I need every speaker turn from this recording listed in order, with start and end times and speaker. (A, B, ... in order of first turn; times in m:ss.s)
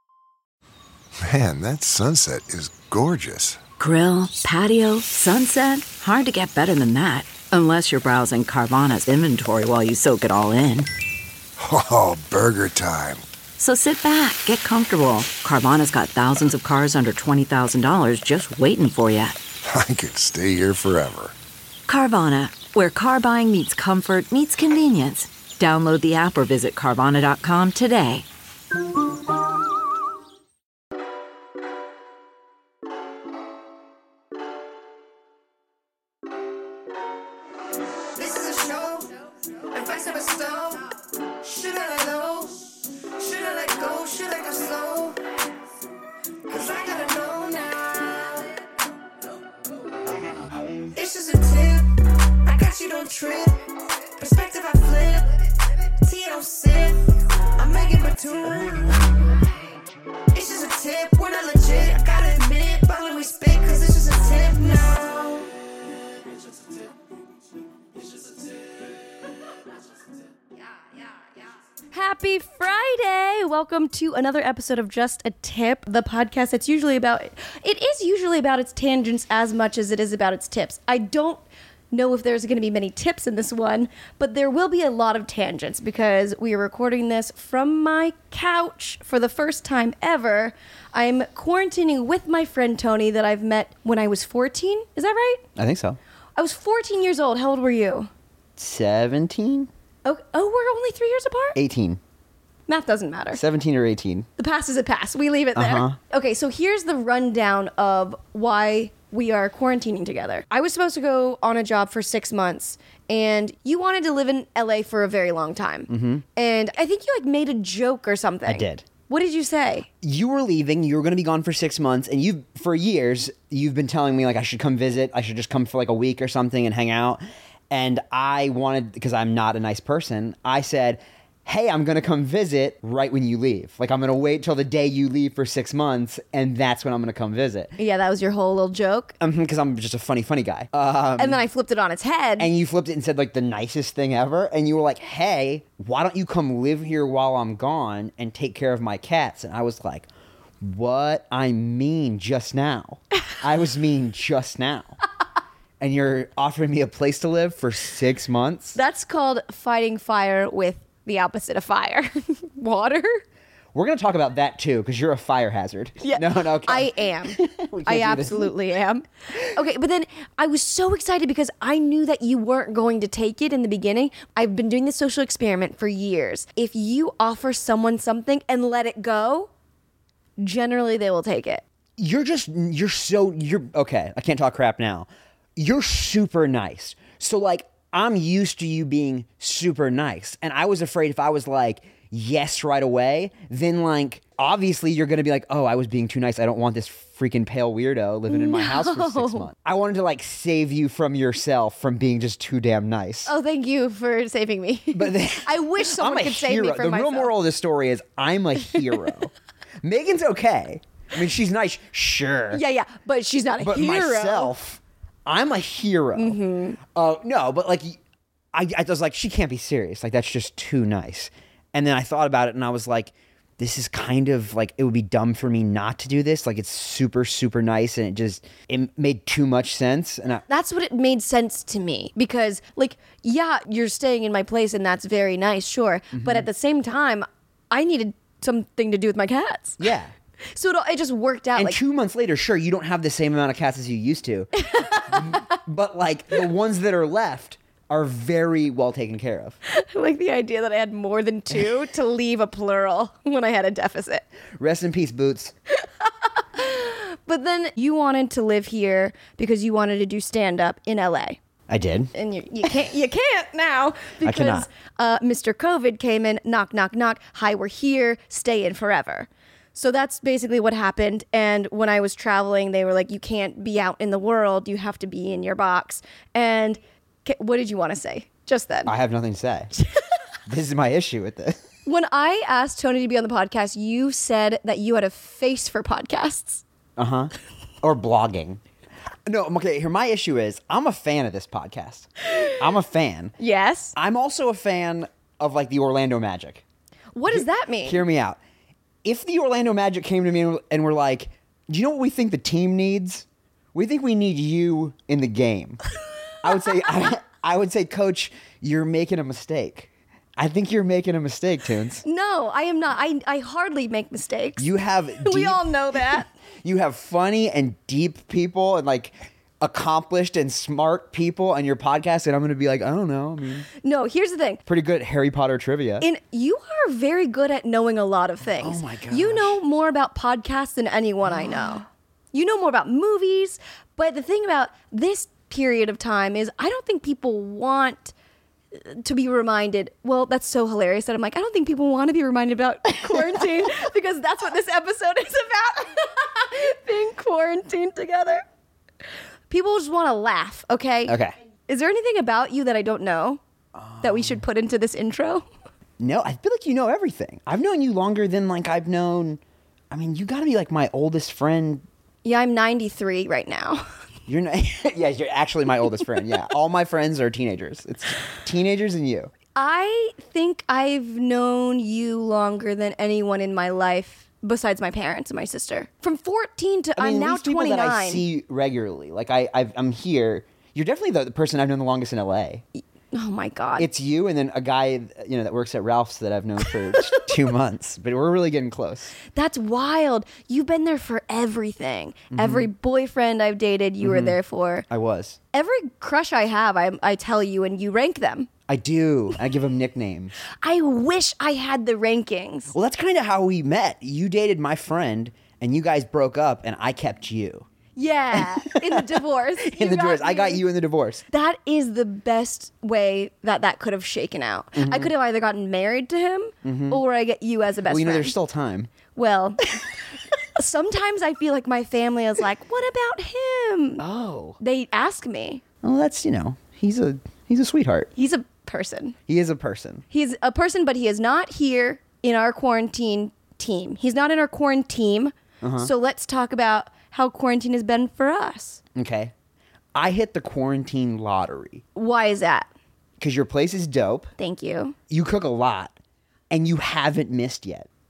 0:01.2-0:03.6 A
0:03.8-0:10.9 B
0:11.6-0:13.2 A
0:13.6-0:19.4 B
0:19.6-0:21.3 A
0:21.9-0:28.2 B
0:38.2-0:39.0 C
0:39.7-0:40.8 C
0:39.9-0:40.6 D
0:41.4-0:45.2 C
0:43.5-0:44.8 D
0:46.5-0:48.3 C
0:46.9-0:47.3 D
0:51.0-0:51.8 C
0:51.0-0:51.4 D
0:52.3-0:55.2 C
0:52.6-0:53.0 D
0:54.2-0:55.1 D
0:55.9-0:56.9 C
0:56.0-0:56.7 D
0:57.6-0:58.3 C
1:00.3-1:05.3 D
1:00.4-1:05.4 C
1:11.9-1:35.4 D
1:35.6-1:36.0 E
1:36.4-1:38.1 D
1:38.6-1:39.7 E
1:40.0-1:41.6 D
1:41.5-1:42.0 E
1:42.7-1:43.4 D
1:43.3-1:44.3 E
1:44.4-1:59.9 D
1:45.5-1:46.0 E
1:55.9-1:56.2 E
1:58.5-1:58.8 E
2:00.0-2:17.8 E
2:17.8-2:19.2 D
2:19.2-2:21.4 E
2:21.2-2:22.5 D
2:22.4-2:30.1 E
2:30.6-2:35.0 E
2:35.8-2:38.8 E
2:38.7-2:43.2 D
2:43.7-2:48.5 E
2:46.0-2:59.5 D
3:00.4-3:01.6 D
3:02.0-3:23.3 E
3:18.3-3:19.5 D
3:23.2-3:27.3 D
3:24.9-3:32.6 E
3:32.5-3:34.5 D
3:33.6-3:38.0 E
3:36.2-3:36.8 D
3:38.5-3:50.4 E
3:50.5-3:59.8 D
3:56.1-3:56.4 E
3:59.8-4:00.1 E
4:00.5-4:01.8 D
4:01.5-4:09.6 E
4:04.6-4:05.6 D
4:09.7-4:14.2 D
4:14.6-4:15.5 E
4:16.0-4:21.4 D
4:21.7-4:22.1 E
4:22.1-4:38.9 D
4:24.2-4:24.7 E
4:38.8-4:39.7 E
4:40.4-4:41.6 E
4:41.8-4:46.6 D
4:47.0-4:48.6 E
4:49.2-4:53.3 E
4:53.4-4:53.9 D
4:54.0-4:56.6 E
4:57.1-4:58.0 D
4:57.3-4:58.4 E
4:59.0-5:05.8 E
5:06.4-5:12.0 E
5:12.0-5:14.7 D
5:14.6-5:23.7 E
5:15.2-5:16.3 D
5:23.8-5:24.6 D
5:24.6-5:26.0 E
5:26.0-5:38.1 D
5:28.6-5:29.6 E
5:38.7-5:48.4 D
5:49.5-5:53.4 D
5:51.1-5:51.3 E
5:53.8-5:54.4 E
5:54.0-5:55.4 D
5:56.0-5:59.4 E
5:59.9-6:01.8 E
6:02.2-6:03.8 D
6:04.3-6:09.3 E
6:09.5-6:18.2 D
6:17.0-6:22.6 E
6:23.1-6:23.9 D
6:23.8-6:29.1 E
6:26.9-6:27.3 D
6:29.3-6:34.8 D
6:32.3-6:32.7 E
6:34.0-6:34.4 E
6:34.9-6:35.4 E
6:35.5-6:38.5 D
6:38.7-6:40.4 E
6:40.6-6:42.7 D
6:42.7-6:47.7 E
6:48.0-6:50.6 D
6:48.3-6:51.2 E
6:51.3-6:58.3 D
6:54.8-6:55.1 E
6:56.6-6:57.0 E
6:57.9-6:58.9 E
6:59.1-6:59.7 D
7:00.5-7:04.0 D
7:04.0-7:04.6 E
7:04.6-7:05.6 D
7:05.8-7:08.1 E
7:08.2-7:09.2 D
7:09.3-7:10.0 E
7:10.1-7:18.8 D
7:15.6-7:15.9 E
7:18.9-7:19.3 E
7:19.9-7:21.8 E
7:22.0-7:22.7 D
7:23.2-7:24.3 E
7:24.4-7:25.0 D
7:25.1-7:25.9 E
7:26.5-7:27.9 E